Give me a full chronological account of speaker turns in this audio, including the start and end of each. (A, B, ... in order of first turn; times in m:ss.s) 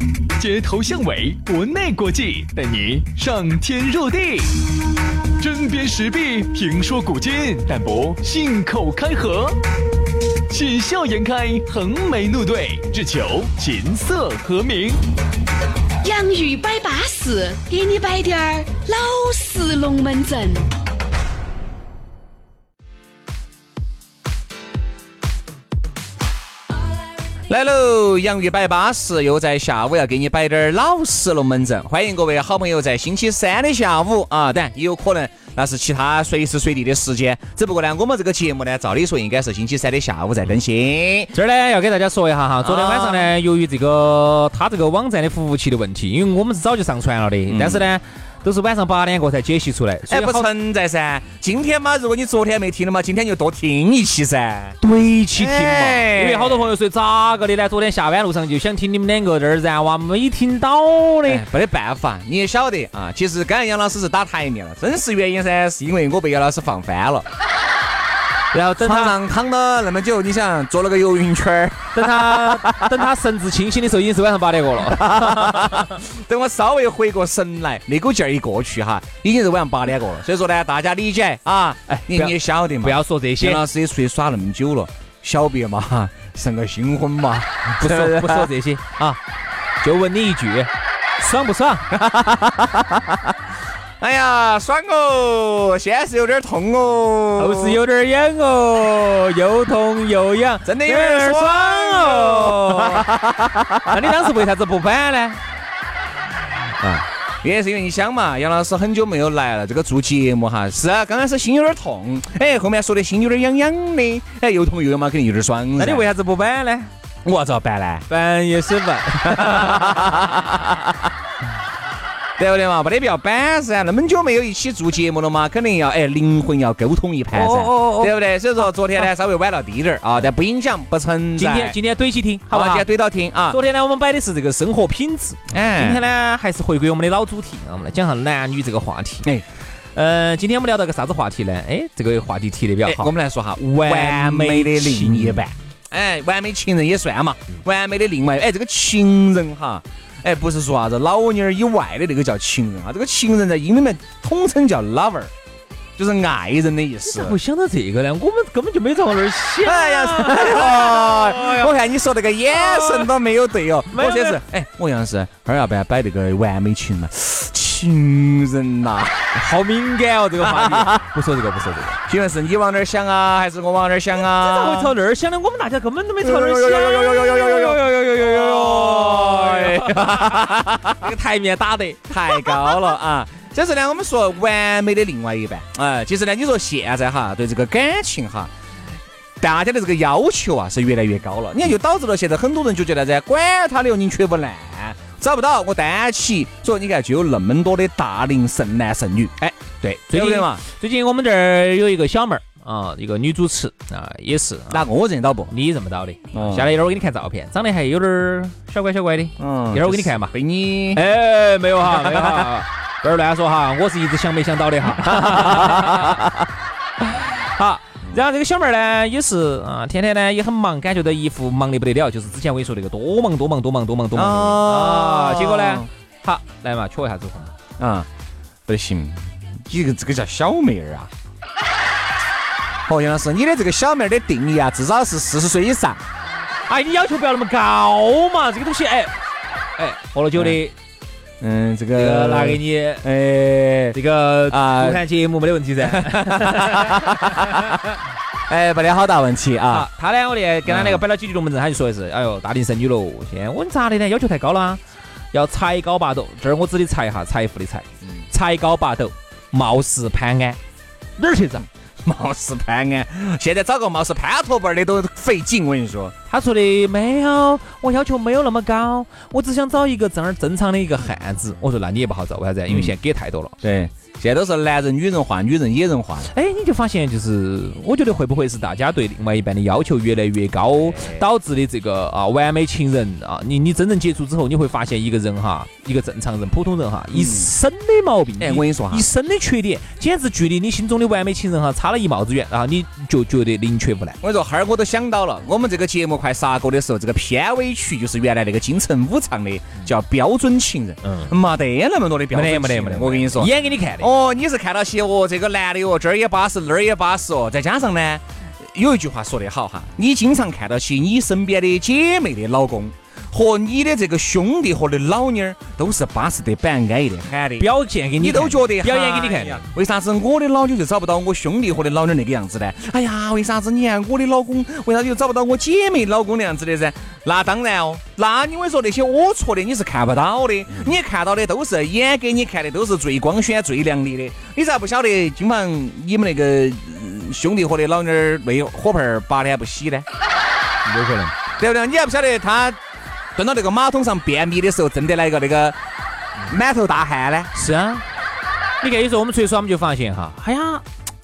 0:00.4-0:04.6 A
0:05.4-0:09.6 A
0:10.5-0:15.0 A
0:16.0-0:20.7 B
0:27.5-0:41.3 C
0:41.3-0:50.5 D
0:42.6-0:43.3 C
0:47.5-0:47.9 C
0:50.1-0:54.8 C
0:54.8-1:01.4 D
0:55.4-0:56.7 C
1:01.3-1:07.3 C
1:08.5-1:09.2 D
1:08.8-1:13.1 C
1:11.9-1:15.9 D
1:14.9-1:28.5 C
1:21.9-1:23.6 D
1:27.8-1:29.2 D
1:29.8-1:31.9 D
1:31.9-1:33.0 C
1:34.0-1:37.8 C
1:37.4-1:43.1 D
1:40.6-1:44.0 C
1:43.8-1:45.4 D
1:46.8-1:56.1 C
1:55.8-1:56.9 D
1:57.2-1:58.0 C
1:58.1-2:00.5 D
1:59.3-2:00.5 C
2:02.4-2:11.8 C
2:07.3-2:09.1 D
2:11.4-2:12.9 D
2:12.5-2:13.6 C
2:13.5-2:19.3 D
2:15.5-2:16.0 C
2:20.0-2:25.5 D
2:22.8-2:35.3 C
2:36.0-2:37.4 C
2:37.1-2:41.7 D
2:39.6-2:49.4 C
2:42.5-2:43.1 D
2:43.9-2:44.4 D
2:49.4-2:52.0 D
2:50.4-2:51.0 C
2:52.0-2:55.0 C
2:54.2-3:02.8 D
2:56.2-3:01.1 C
3:02.1-3:08.5 C
3:09.4-3:20.6 C
3:19.8-3:24.8 D
3:24.7-3:25.5 C
3:25.5-3:30.3 D
3:26.3-3:26.7 C
3:29.4-3:31.0 C
3:30.9-3:36.3 D
3:32.0-3:32.5 C
3:35.2-3:36.2 C
3:37.0-3:47.5 D
3:44.2-3:45.9 C
3:47.8-3:48.1 C
3:48.7-3:51.1 C
3:52.9-3:56.0 C
3:56.7-3:59.2 D
3:59.8-4:00.8 D
4:01.4-4:05.0 C
4:01.9-4:03.1 D
4:03.9-4:07.8 D
4:05.8-4:07.8 C
4:08.5-4:09.9 C
4:09.7-4:14.8 D
4:10.7-4:11.0 C
4:15.3-4:20.6 D
4:21.2-4:21.7 D
4:22.0-4:26.1 C
4:26.3-4:33.6 D
4:32.7-4:33.0 C
4:33.6-4:36.3 C
4:36.2-4:54.2 D
4:40.8-4:41.3 C
4:47.1-4:47.5 C
4:48.4-4:49.1 C
4:54.2-5:40.1 C
5:01.0-5:01.4 D
5:02.3-5:04.1 D
5:17.6-5:19.6 D
5:40.9-5:41.4 D
5:41.6-5:42.8 C
5:43.4-5:45.8 C
5:46.5-5:47.5 C
5:47.5-5:48.1 D
5:48.8-5:50.8 D